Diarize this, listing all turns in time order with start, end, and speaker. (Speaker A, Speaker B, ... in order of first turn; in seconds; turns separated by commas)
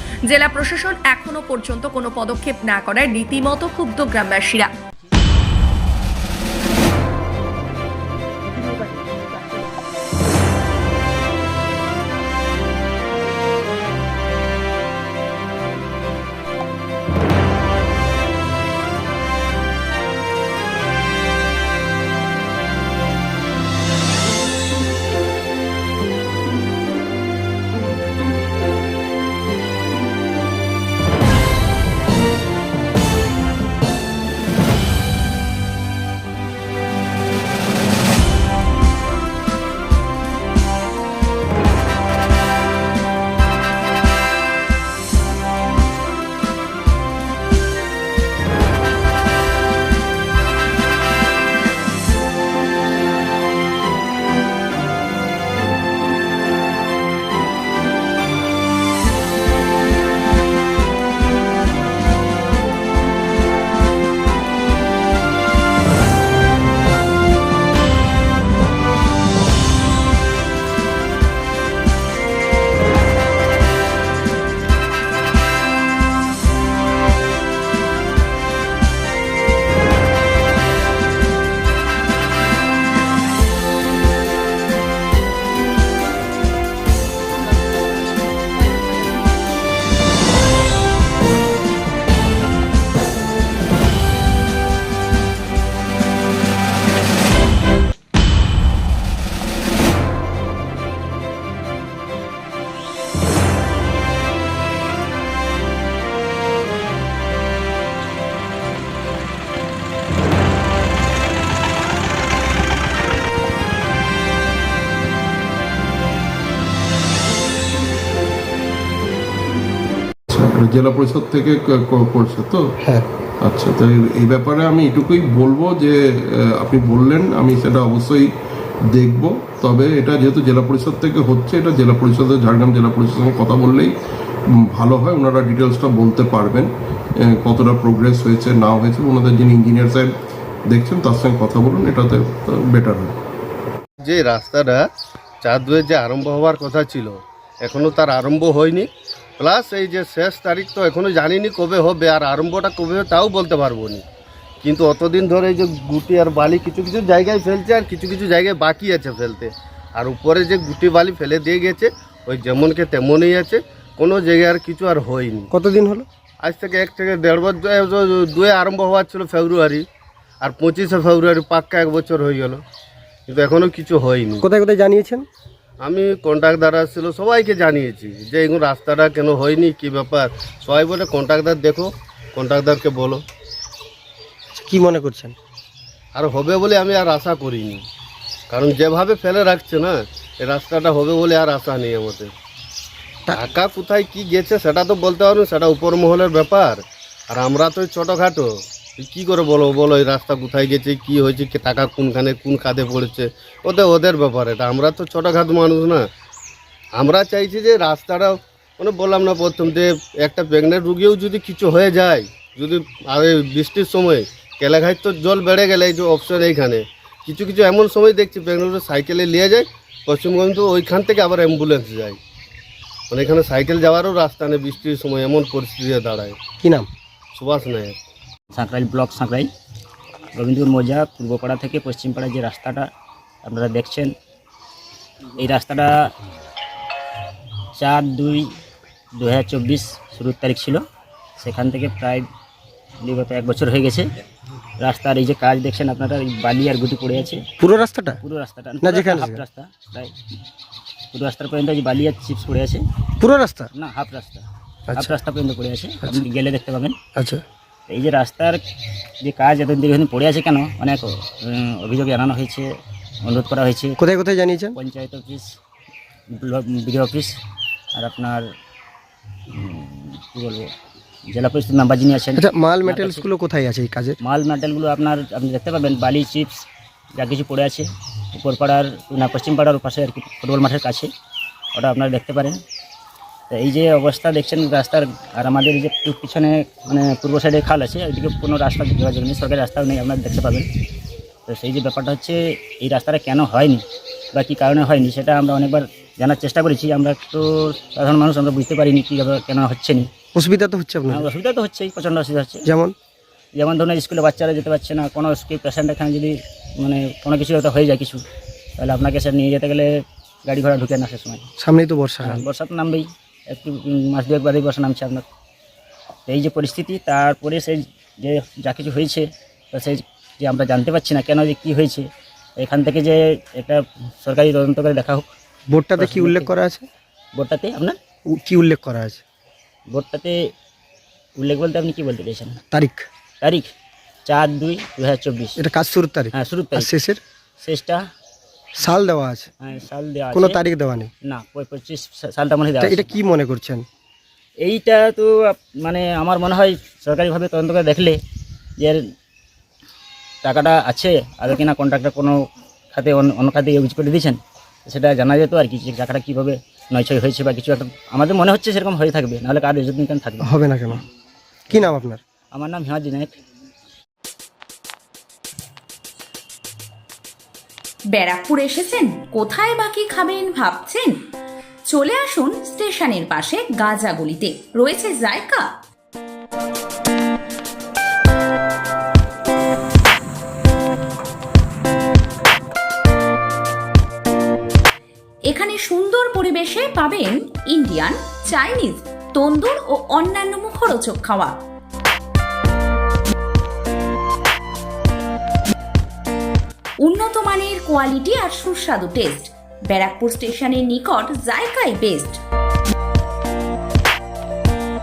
Speaker A: 0.3-4.7, Speaker B: 120.3-122.7, Speaker B: 123.4-128.3, Speaker B: 128.9-133.9, Speaker B: 134.7-136.7, Speaker B: 137.3-140.1, Speaker B: 140.7-143.1, Speaker C: 144.0-144.9, Speaker C: 145.4-148.9, Speaker C: 149.4-154.1, Speaker C: 154.6-165.5, Speaker D: 165.5-166.1, Speaker C: 166.4-169.8, Speaker C: 170.4-172.6, Speaker C: 173.3-174.4, Speaker D: 174.4-175.3, Speaker C: 175.8-183.2, Speaker D: 184.5-185.3, Speaker C: 186.2-187.8, Speaker C: 188.5-192.3, Speaker C: 193.3-206.0, Speaker C: 207.0-222.2, Speaker C: 223.1-226.4, Speaker D: 226.6-226.9, Speaker C: 227.3-228.0, Speaker E: 228.5-229.5, Speaker E: 230.3-232.9, Speaker E: 233.4-234.1, Speaker E: 235.4-236.1, Speaker E: 237.8-238.5, Speaker E: 239.2-240.8, Speaker E: 241.4-242.3, Speaker E: 243.0-244.1, Speaker E: 244.8-247.5, Speaker D: 247.6-248.2, Speaker E: 248.2-250.1, Speaker D: 248.8-249.4, Speaker E: 251.1-252.8, Speaker D: 253.2-253.7, Speaker E: 253.7-257.0, Speaker D: 254.9-255.2, Speaker D: 257.1-257.4, Speaker E: 257.9-258.6, Speaker E: 259.2-264.0, Speaker D: 264.0-264.8, Speaker E: 264.8-265.5, Speaker E: 266.4-267.4, Speaker E: 267.9-268.4, Speaker E: 269.5-270.7, Speaker E: 271.3-273.2, Speaker D: 272.4-274.2, Speaker E: 274.2-281.1, Speaker E: 281.7-282.6, Speaker E: 283.5-290.7, Speaker E: 291.5-300.1, Speaker D: 300.4-301.3, Speaker E: 301.1-302.7, Speaker D: 302.7-302.9, Speaker E: 303.6-308.2, Speaker E: 308.8-311.5, Speaker D: 311.6-312.5, Speaker E: 312.2-315.2, Speaker E: 316.3-325.3, Speaker D: 325.7-326.9, Speaker E: 326.0-326.5, Speaker E: 327.4-328.0, Speaker D: 328.3-329.2, Speaker E: 329.9-330.5, Speaker E: 331.4-332.6, Speaker D: 332.7-333.1, Speaker E: 333.4-333.7, Speaker E: 334.2-335.6, Speaker D: 335.6-337.2, Speaker E: 336.3-336.9, Speaker E: 337.6-338.0, Speaker D: 338.8-339.5, Speaker E: 339.6-340.6, Speaker D: 340.3-341.1, Speaker E: 341.2-343.2, Speaker D: 342.8-343.9, Speaker E: 344.6-348.2, Speaker E: 350.4-352.4, Speaker E: 352.9-360.5, Speaker D: 360.4-361.0, Speaker D: 361.7-362.2, Speaker E: 362.5-363.3, Speaker F: 368.1-371.1, Speaker F: 371.9-375.7, Speaker F: 385.5-391.6, Speaker F: 397.0-402.4